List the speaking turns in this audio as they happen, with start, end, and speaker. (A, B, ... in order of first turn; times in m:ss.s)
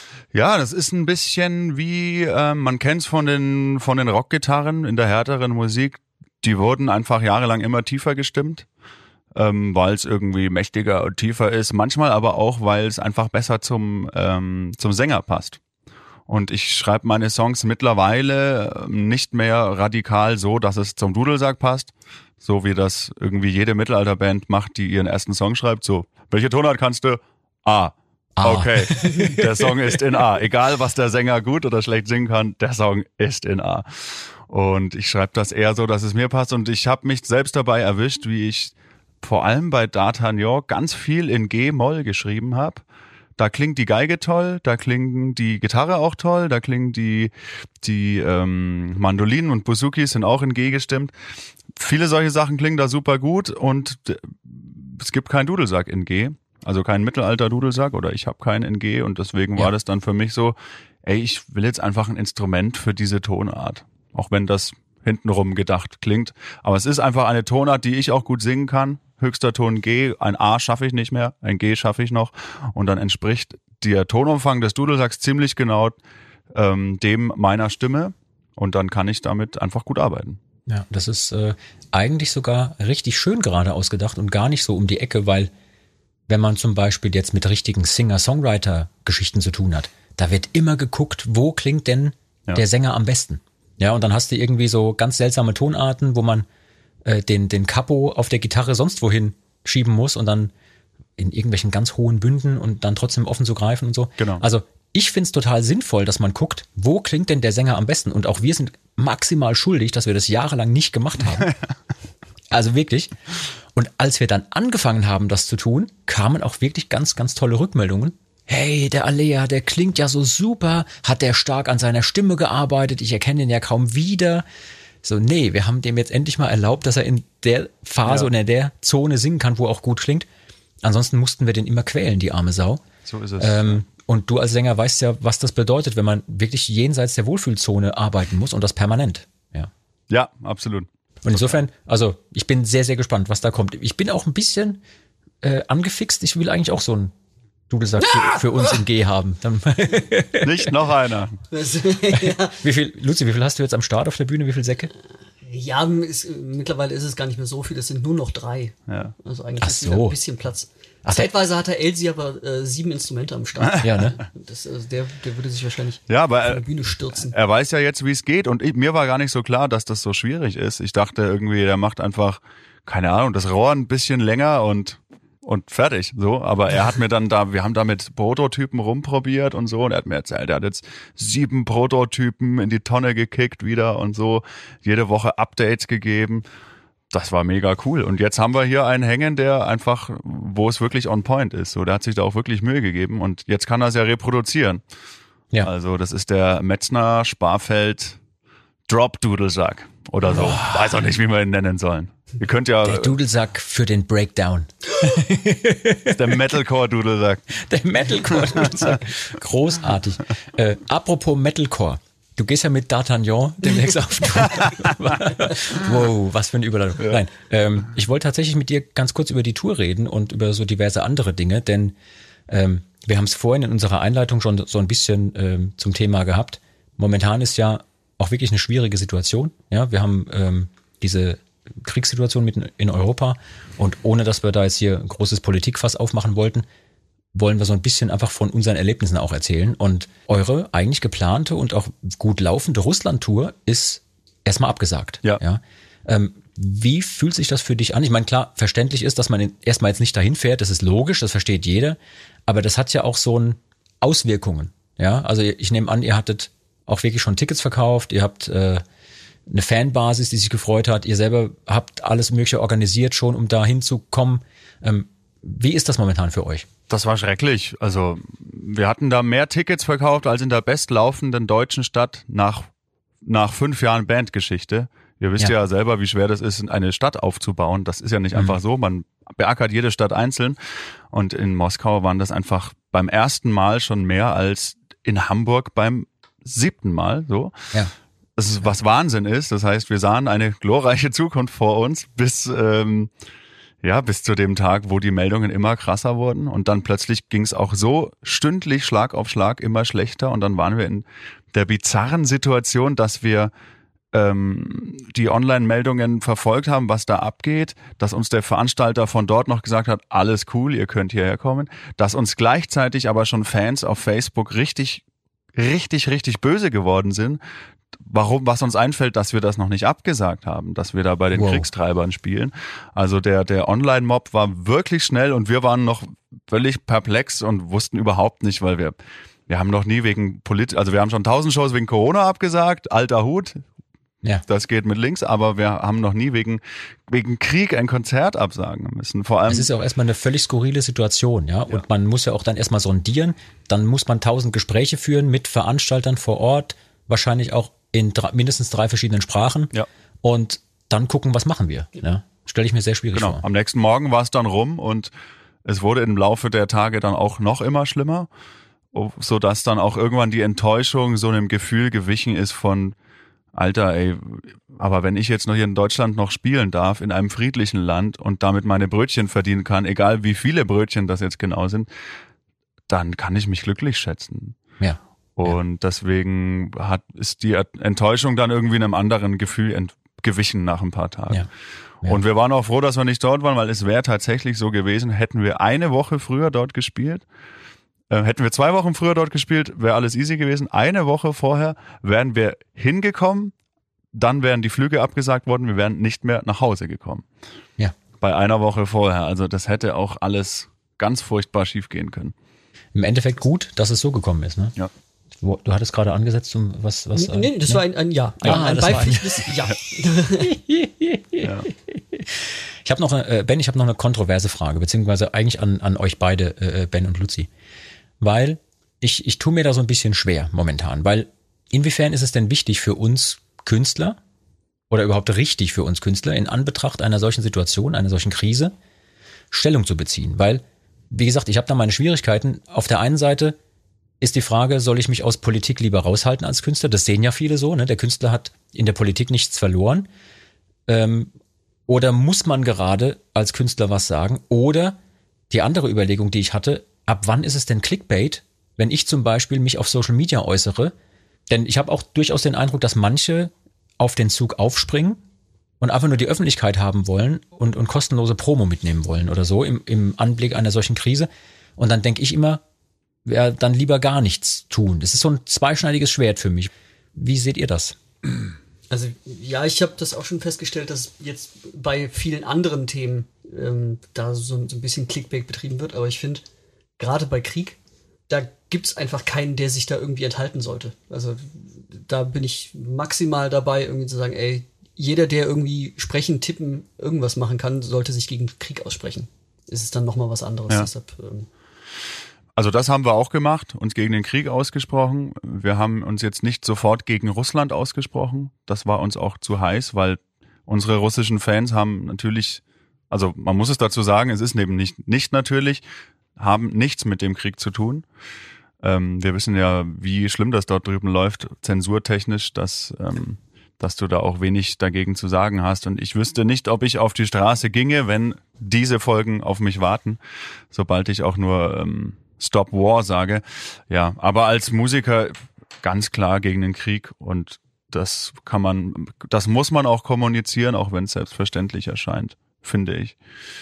0:00.3-0:08.6 A
0:09.4-0:15.6 A
0:16.3-0:42.8 A
0:28.4-0:30.0 B
0:43.4-0:51.1 A
0:51.8-1:16.0 A
1:16.6-1:20.4 A
1:20.7-1:25.5 B
1:26.3-1:36.5 B
1:37.0-1:40.5 B
1:41.2-1:51.5 B
1:44.2-1:44.4 A
1:52.5-1:53.1 B
1:53.7-2:04.4 B
2:05.0-2:10.3 B
2:08.0-2:08.3 A
2:10.8-2:12.9 B
2:13.0-2:13.8 A
2:13.4-2:19.7 B
2:20.1-2:21.6 A
2:21.2-2:24.8 B
2:25.4-2:27.1 B
2:27.7-2:30.7 B
2:30.4-2:31.4 A
2:31.5-2:32.6 C
2:32.1-2:34.9 B
2:35.4-2:47.3 C
2:38.9-2:39.2 A
2:39.6-2:40.2 B
2:41.0-2:41.3 B
2:43.8-2:44.2 B
2:46.1-2:46.6 A
2:47.3-3:06.4 A
3:07.1-3:14.8 A
3:15.6-3:18.2 A
3:18.9-3:23.2 A
3:20.3-3:21.0 B
3:22.8-3:26.5 B
3:26.1-3:27.5 A
3:27.5-3:42.0 B
3:28.3-3:28.7 A
3:34.7-3:34.9 A
3:42.5-3:56.6 B
3:57.3-4:18.8 B
4:19.5-4:26.7 B
4:26.9-4:32.7 A
4:33.2-4:40.6 A
4:41.1-4:47.5 A
4:48.4-4:53.1 A
4:53.8-5:03.5 A
5:04.1-5:15.0 A
5:15.6-5:17.4 A
5:18.0-5:29.0 A
5:21.3-5:21.7 B
5:29.5-5:33.6 A
5:34.5-5:39.7 A
5:39.5-5:53.4 B
5:53.2-5:55.1 A
5:55.6-5:58.3 A
5:58.9-6:03.0 A
6:03.5-6:11.9 A
6:12.9-6:14.6 A
6:14.8-6:15.6 B
6:15.4-6:21.5 A
6:22.0-6:27.2 A
6:28.1-6:33.5 A
6:34.1-6:37.3 A
6:38.2-6:42.3 A
6:42.9-6:44.8 B
6:45.4-6:47.8 B
6:47.2-6:50.5 C
6:48.4-6:49.5 B
6:50.4-6:57.5 B
6:51.4-6:51.7 A
6:58.2-7:04.2 B
7:04.9-7:08.8 B
7:09.5-7:13.6 B
7:14.2-7:20.1 B
7:20.9-7:21.3 B
7:21.9-7:25.0 B
7:25.5-7:30.9 B
7:31.5-7:35.2 B
7:35.8-7:42.6 B
7:43.2-7:48.0 B
7:48.9-7:56.4 C
7:57.0-7:57.8 C
7:58.3-8:11.5 C
8:12.6-8:25.8 A
8:26.4-8:28.1 A
8:28.8-8:40.2 A
8:40.7-8:53.2 A